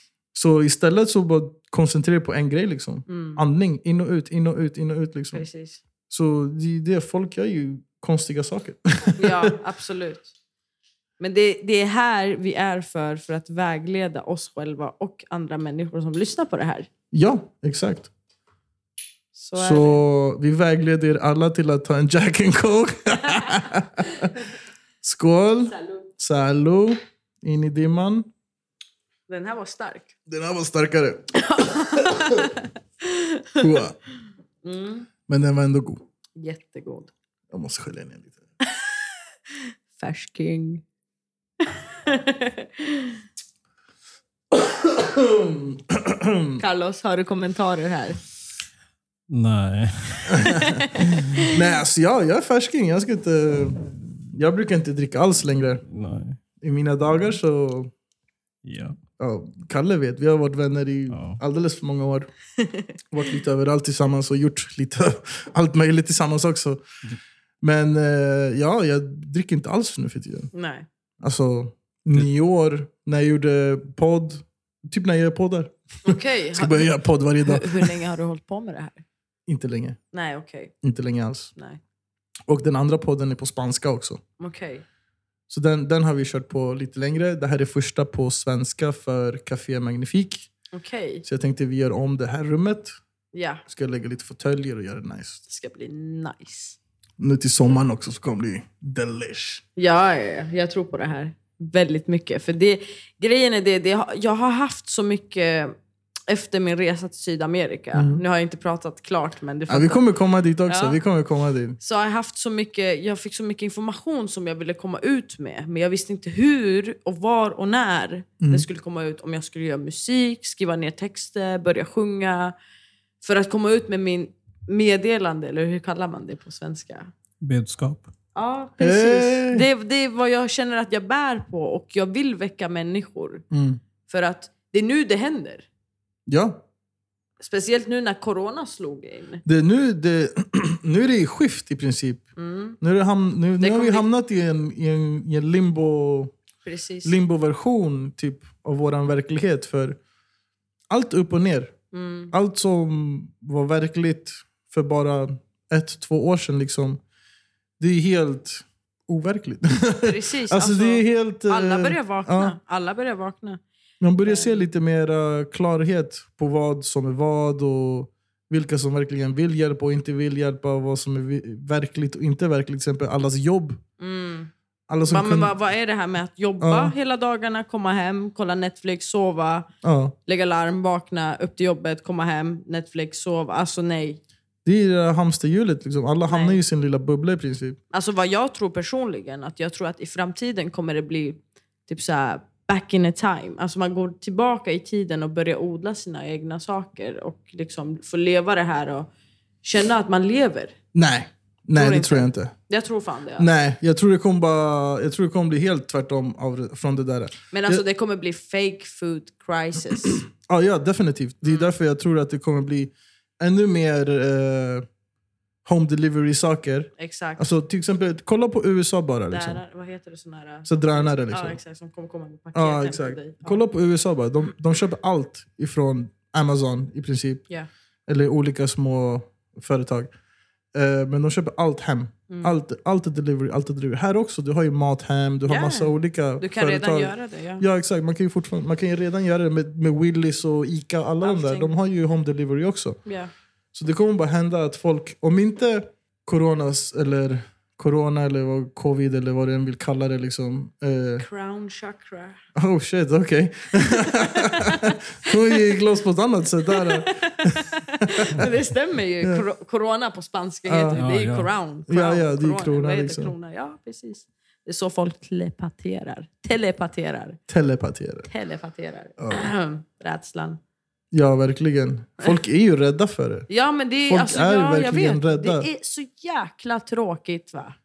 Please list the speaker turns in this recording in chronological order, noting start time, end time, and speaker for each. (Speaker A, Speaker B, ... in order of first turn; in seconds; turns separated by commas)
Speaker A: 0.3-5.5, Speaker B: 3.1-3.4, Speaker B: 5.3-5.8, Speaker A: 6.1-9.5, Speaker B: 9.2-10.3, Speaker B: 11.2-16.9, Speaker A: 17.1-18.1, Speaker B: 19.3-20.0, Speaker A: 19.6-24.3, Speaker A: 25.0-28.3, Speaker B: 25.7-26.1, Speaker B: 29.3-30.1, Speaker A: 30.3-32.5, Speaker B: 31.3-33.7, Speaker A: 33.6-34.0, Speaker B: 34.6-35.1, Speaker A: 35.3-36.0, Speaker B: 36.4-37.1, Speaker A: 37.5-38.4, Speaker B: 38.6-39.0, Speaker B: 40.0-40.8, Speaker B: 41.6-43.2, Speaker A: 44.5-46.6, Speaker B: 46.6-48.2, Speaker C: 49.3-51.2, Speaker A: 50.3-55.8, Speaker B: 50.6-51.5, Speaker C: 55.9-56.4, Speaker A: 56.6-57.9, Speaker C: 58.6-59.0, Speaker A: 59.2-62.3, Speaker C: 61.1-61.4, Speaker B: 62.6-62.9, Speaker A: 63.1-66.8, Speaker A: 67.6-70.5, Speaker B: 70.5-70.9, Speaker A: 71.2-78.0, Speaker B: 76.0-76.9, Speaker B: 77.4-79.0, Speaker A: 79.5-80.0, Speaker B: 80.1-80.7, Speaker A: 80.8-81.5, Speaker A: 82.5-84.2, Speaker B: 84.4-84.8, Speaker A: 85.5-90.5, Speaker B: 90.7-91.2, Speaker A: 91.2-93.0, Speaker B: 93.3-93.6, Speaker A: 93.7-95.4, Speaker B: 95.5-96.8, Speaker A: 97.2-99.6, Speaker B: 99.8-105.8, Speaker B: 106.3-110.0, Speaker A: 107.9-108.2, Speaker A: 109.7-111.8, Speaker B: 110.7-111.0, Speaker B: 111.8-122.5, Speaker A: 118.4-118.7, Speaker B: 123.2-127.1, Speaker C: 127.4-128.1, Speaker B: 128.3-133.4, Speaker A: 128.8-129.7, Speaker A: 133.5-133.8, Speaker B: 134.1-135.7, Speaker A: 136.3-136.6, Speaker B: 137.4-139.4, Speaker A: 139.4-142.2, Speaker B: 142.4-142.8, Speaker A: 142.8-146.3, Speaker B: 143.6-144.1, Speaker B: 146.6-147.2, Speaker A: 147.0-150.0, Speaker A: 150.9-151.8, Speaker B: 151.9-152.3, Speaker A: 152.3-157.0, Speaker A: 157.8-162.6, Speaker B: 160.0-163.6, Speaker A: 164.0-173.8, Speaker B: 164.2-164.6, Speaker B: 174.0-174.5, Speaker A: 174.9-175.5, Speaker B: 175.1-179.7, Speaker A: 176.6-176.9, Speaker A: 179.8-180.2, Speaker B: 180.2-184.2, Speaker A: 184.7-187.8, Speaker B: 186.3-186.6, Speaker B: 187.9-199.1, Speaker B: 199.6-200.8, Speaker A: 200.9-202.5, Speaker B: 201.8-203.5, Speaker A: 203.4-207.8, Speaker B: 207.5-210.2, Speaker A: 210.3-214.9, Speaker B: 211.4-211.7, Speaker A: 215.7-219.6, Speaker B: 217.0-217.5, Speaker B: 219.3-223.6, Speaker A: 220.7-221.6, Speaker A: 222.6-227.4, Speaker A: 228.1-230.1, Speaker A: 230.7-243.0, Speaker B: 232.3-232.6, Speaker B: 235.5-237.7, Speaker B: 241.2-241.7, Speaker B: 243.1-243.3, Speaker A: 243.7-251.2, Speaker B: 251.2-252.4, Speaker A: 252.6-258.5, Speaker B: 253.9-255.7, Speaker B: 256.7-267.4, Speaker A: 260.7-261.0, Speaker C: 260.9-261.5, Speaker A: 261.9-263.3, Speaker A: 267.5-268.3, Speaker B: 268.3-270.6, Speaker A: 269.2-269.4, Speaker A: 271.1-273.5, Speaker B: 273.5-277.8, Speaker A: 274.1-275.7